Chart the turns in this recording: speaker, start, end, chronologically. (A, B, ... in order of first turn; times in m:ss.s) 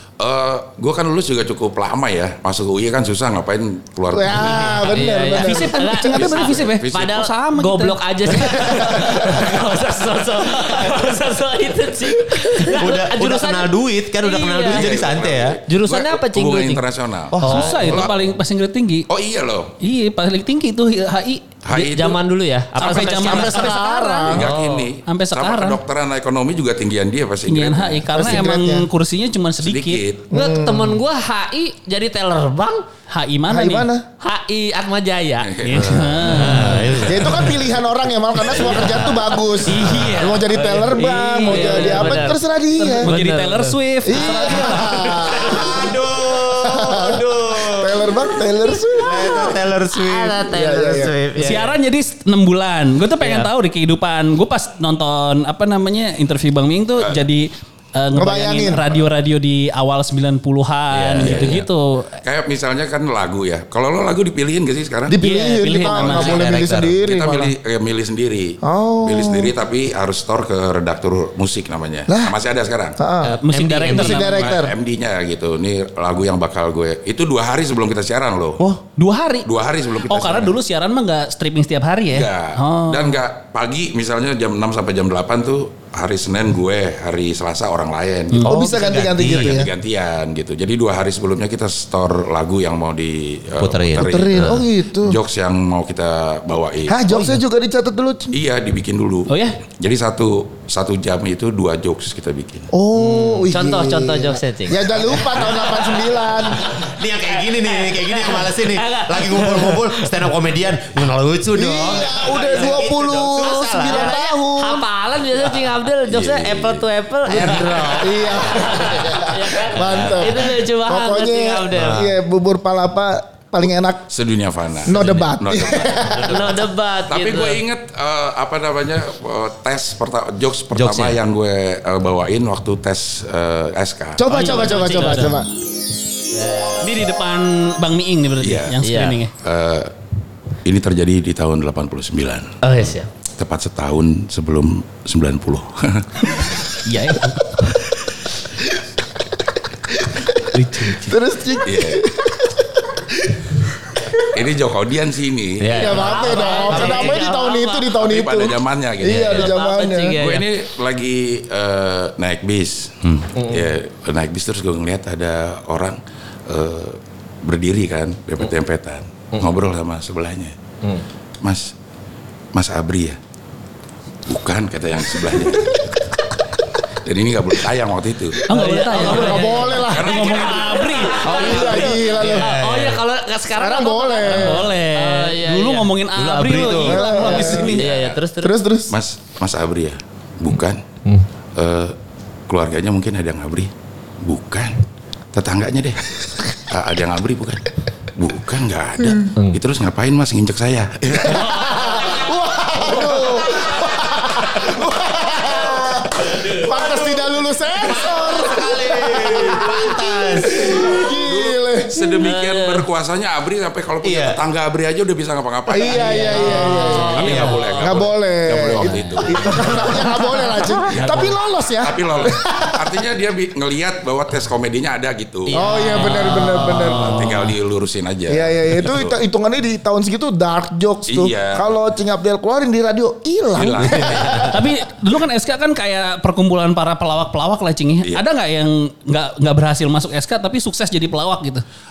0:00.2-0:04.9 A
0:04.1-0:06.4 B
0:04.4-0:15.0 C
0:05.3-0:08.0 D
0:06.2-0:07.3 A
0:08.6-0:09.4 B
0:12.7-0:15.6 E
0:14.7-0:18.3 A
0:15.7-0:16.8 C
0:17.3-0:18.1 E
0:17.4-0:19.1 D
0:19.1-0:19.8 A
0:19.8-0:21.5 D
0:21.6-0:22.2 A
0:21.7-0:24.5 C
0:22.8-0:24.3 D
0:22.9-0:23.7 E
0:23.5-0:24.5 B
0:24.3-0:28.4 A
0:24.4-0:24.9 E
0:25.1-0:25.8 D
0:27.5-0:30.0 D
0:28.1-0:28.9 B
0:29.6-0:30.3 A
0:30.3-0:31.0 B
0:30.3-0:32.8 C
0:33.1-0:33.9 D
0:33.5-0:34.1 B
0:34.2-0:35.6 C
0:35.4-0:36.0 A
0:35.6-0:36.9 D
0:35.8-0:37.7 E
0:36.4-0:37.0 C
0:37.0-0:43.1 B
0:38.5-0:39.6 C
0:39.7-0:45.3 D
0:40.5-0:42.4 C
0:43.0-0:44.6 C
0:44.0-0:45.9 B
0:45.5-0:45.8 C
0:45.5-0:48.4 E
0:46.6-0:49.5 B
0:49.0-0:51.7 C
0:49.0-0:51.6 E
0:50.5-0:51.1 B
0:51.4-1:02.2 D
0:53.2-0:53.5 C
0:58.2-0:58.9 B
1:00.9-1:01.6 E
1:01.2-1:01.7 A
1:02.2-1:05.2 A
1:05.1-1:07.5 B
1:05.2-1:06.5 D
1:06.0-1:07.0 E
1:07.0-1:13.0 A
1:08.6-1:09.5 B
1:12.1-1:12.3 B
1:13.0-1:13.4 B
1:13.2-1:14.4 E
1:13.4-1:14.6 D
1:13.9-1:14.7 B
1:14.4-1:18.6 A
1:19.0-1:19.5 D
1:19.4-1:20.6 A
1:20.0-1:23.2 D
1:22.1-1:28.5 A
1:28.4-1:29.6 E
1:28.5-1:29.7 B
1:29.2-1:37.2 A
1:33.6-1:34.6 E
1:34.0-1:35.2 B
1:36.9-1:38.4 B
1:38.3-1:42.7 A
1:39.3-1:39.6 D
1:42.7-1:46.7 B
1:43.0-1:44.9 C
1:45.2-1:45.8 E
1:46.8-1:54.2 E
1:47.3-1:50.1 C
1:51.5-1:54.9 B
1:52.3-1:52.8 C
1:53.8-2:02.0 C
1:56.1-1:56.9 A
1:57.3-1:57.8 E
1:57.3-2:04.1 B
2:01.7-2:02.1 E
2:04.1-2:14.3 A
2:04.8-2:06.6 B
2:06.2-2:07.6 C
2:10.7-2:11.2 E
2:14.2-2:15.5 B
2:14.3-2:15.4 D
2:14.4-2:15.3 C
2:16.3-2:16.8 C
2:16.8-2:19.3 D
2:18.4-2:18.8 A
2:18.8-2:19.2 C
2:19.4-2:19.9 A
2:20.6-2:22.6 A
2:22.6-2:23.1 C
2:23.4-2:26.5 A
2:26.3-2:27.4 D
2:29.9-2:34.2 B
2:30.5-2:31.2 D
2:31.6-2:32.0 A
2:34.3-2:35.8 A
2:35.6-2:37.1 E
2:35.7-2:37.9 C
2:35.7-2:40.2 B
2:38.0-2:39.6 A
2:39.2-2:40.5 C
2:40.2-2:50.5 A
2:43.4-2:43.6 C
2:51.4-2:51.7 A
2:52.5-2:53.2 A
2:54.3-2:55.9 A
2:57.0-2:58.4 A
2:58.5-3:01.5 D
2:58.5-3:05.9 C
2:58.5-3:00.5 B
2:59.7-3:01.2 A
3:01.2-3:03.0 E
3:01.3-3:02.6 B
3:03.6-3:04.7 B
3:04.3-3:07.8 D
3:06.2-3:07.6 E
3:06.8-3:07.9 B
3:07.1-3:08.5 C
3:07.7-3:08.2 A
3:08.4-3:08.9 B
3:08.9-3:10.8 A
3:11.6-3:12.0 A
3:12.5-3:13.7 A
3:14.2-3:14.8 A
3:15.3-3:21.9 A
3:21.2-3:32.0 B
3:26.3-3:27.2 E
3:27.8-3:30.9 E
3:30.8-3:40.0 A
3:34.0-3:34.4 E
3:35.7-3:42.9 B
3:35.8-3:37.9 C
3:37.2-3:37.6 E
3:40.9-3:45.6 A
3:45.5-3:47.2 C
3:45.5-3:47.4 B
3:46.6-3:49.2 A
3:48.3-3:54.6 B
3:51.1-3:51.7 A
3:53.6-3:54.6 A
3:54.5-4:01.6 D